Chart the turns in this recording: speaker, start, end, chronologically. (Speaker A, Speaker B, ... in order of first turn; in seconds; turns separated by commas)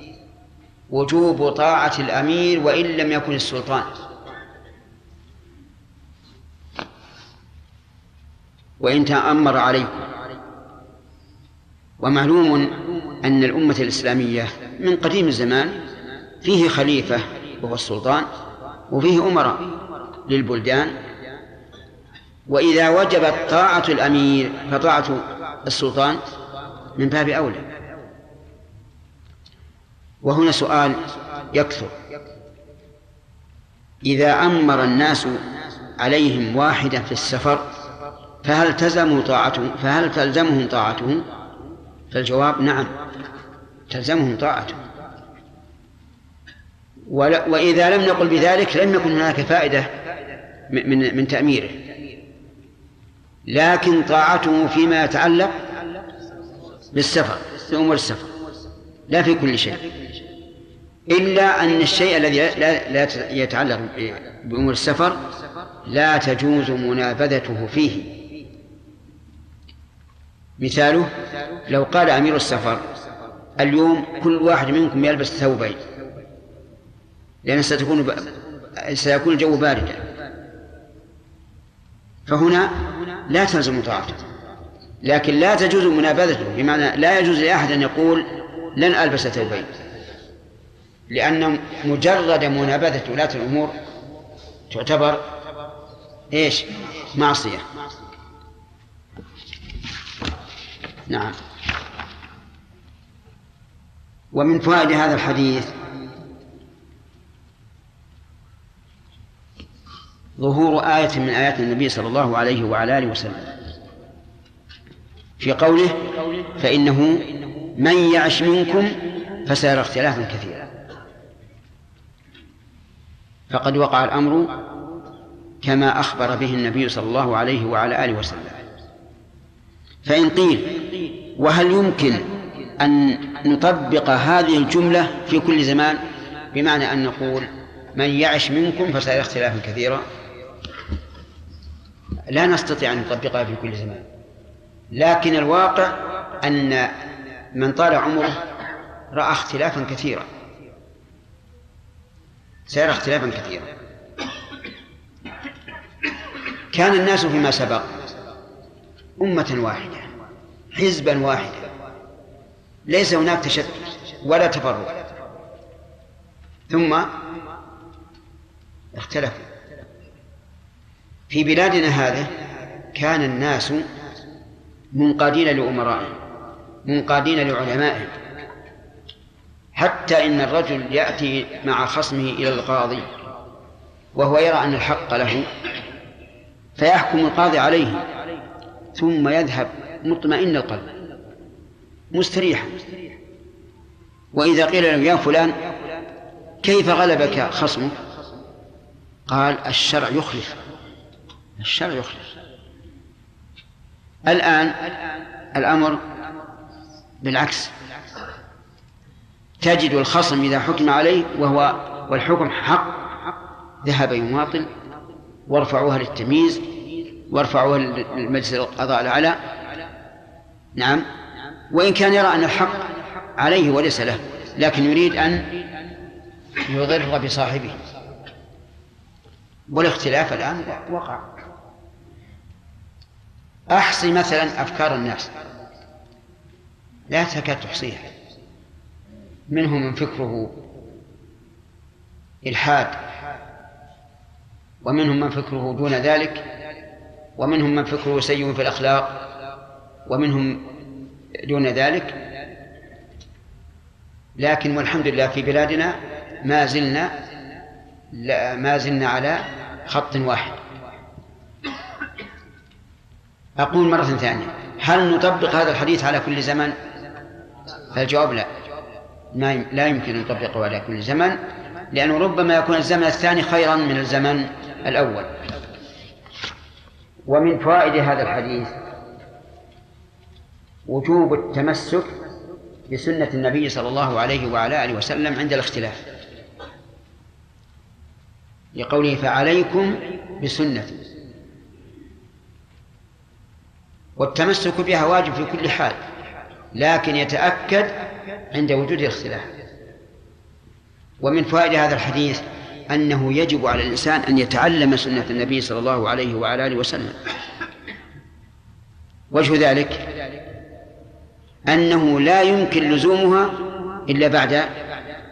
Speaker A: 0.9-4.0, Speaker A: 8.8-10.1, Speaker A: 12.0-15.8, Speaker A: 16.4-18.3, Speaker A: 18.9-21.0, Speaker A: 22.5-26.2, Speaker A: 26.9-27.7, Speaker A: 30.2-32.0, Speaker A: 34.0-35.4, Speaker A: 36.0-37.7, Speaker A: 38.4-41.3, Speaker A: 42.1-42.9, Speaker A: 43.9-44.8, Speaker A: 47.1-49.9, Speaker A: 50.7-51.8, Speaker A: 53.5-55.6, Speaker A: 56.9-58.3, Speaker A: 59.1-59.8, Speaker A: 61.1-65.2, Speaker A: 65.8-68.2, Speaker A: 70.6-71.1, Speaker A: 71.7-72.9, Speaker A: 73.6-75.8, Speaker A: 77.4-80.0, Speaker A: 82.3-84.2, Speaker A: 85.0-89.7, Speaker A: 91.1-93.8, Speaker A: 94.7-95.3, Speaker A: 96.3-97.6, Speaker A: 101.1-101.3, Speaker A: 104.3-105.7, Speaker A: 110.4-113.5, Speaker A: 115.4-120.6, Speaker A: 123.5-124.5, Speaker A: 125.6-128.6, Speaker A: 130.1-140.1, Speaker A: 142.3-144.1, Speaker A: 144.9-146.9, Speaker A: 147.5-148.4, Speaker A: 149.1-150.3, Speaker A: 152.7-153.7, Speaker A: 156.7-157.9, Speaker A: 159.2-160.1, Speaker A: 160.7-161.7, Speaker A: 162.8-165.0, Speaker A: 166.7-167.1, Speaker A: 168.9-169.5, Speaker A: 171.3-172.3, Speaker A: 172.9-173.9, Speaker A: 174.9-176.2, Speaker A: 176.8-178.1, Speaker A: 179.8-183.1, Speaker A: 184.1-185.5, Speaker A: 186.8-188.1, Speaker A: 188.9-190.8, Speaker A: 192.1-192.8, Speaker A: 194.3-195.6, Speaker A: 196.6-198.0, Speaker A: 199.3-200.6, Speaker A: 201.6-202.2, Speaker A: 204.2-205.0, Speaker A: 205.5-206.0, Speaker A: 207.2-207.7, Speaker A: 209.6-213.1, Speaker A: 213.8-214.7, Speaker A: 215.5-216.7, Speaker A: 217.3-219.4, Speaker A: 220.8-221.1, Speaker A: 221.7-225.5, Speaker A: 226.7-227.8, Speaker A: 229.7-231.2, Speaker A: 233.7-235.3, Speaker A: 237.1-238.1, Speaker A: 239.5-240.6, Speaker A: 242.4-243.0, Speaker A: 244.8-246.4, Speaker A: 247.4-249.2, Speaker A: 250.1-250.7, Speaker A: 251.3-252.2, Speaker A: 254.4-257.2, Speaker A: 258.1-260.6, Speaker A: 263.6-266.8, Speaker A: 267.9-268.5, Speaker A: 269.3-271.4, Speaker A: 271.9-275.4, Speaker A: 277.3-278.7, Speaker A: 280.9-282.1, Speaker A: 282.9-286.0, Speaker A: 288.7-291.0, Speaker A: 294.2-296.0, Speaker A: 296.7-298.0, Speaker A: 298.5-299.5, Speaker A: 301.2-307.2, Speaker A: 309.3-310.1, Speaker A: 311.7-314.7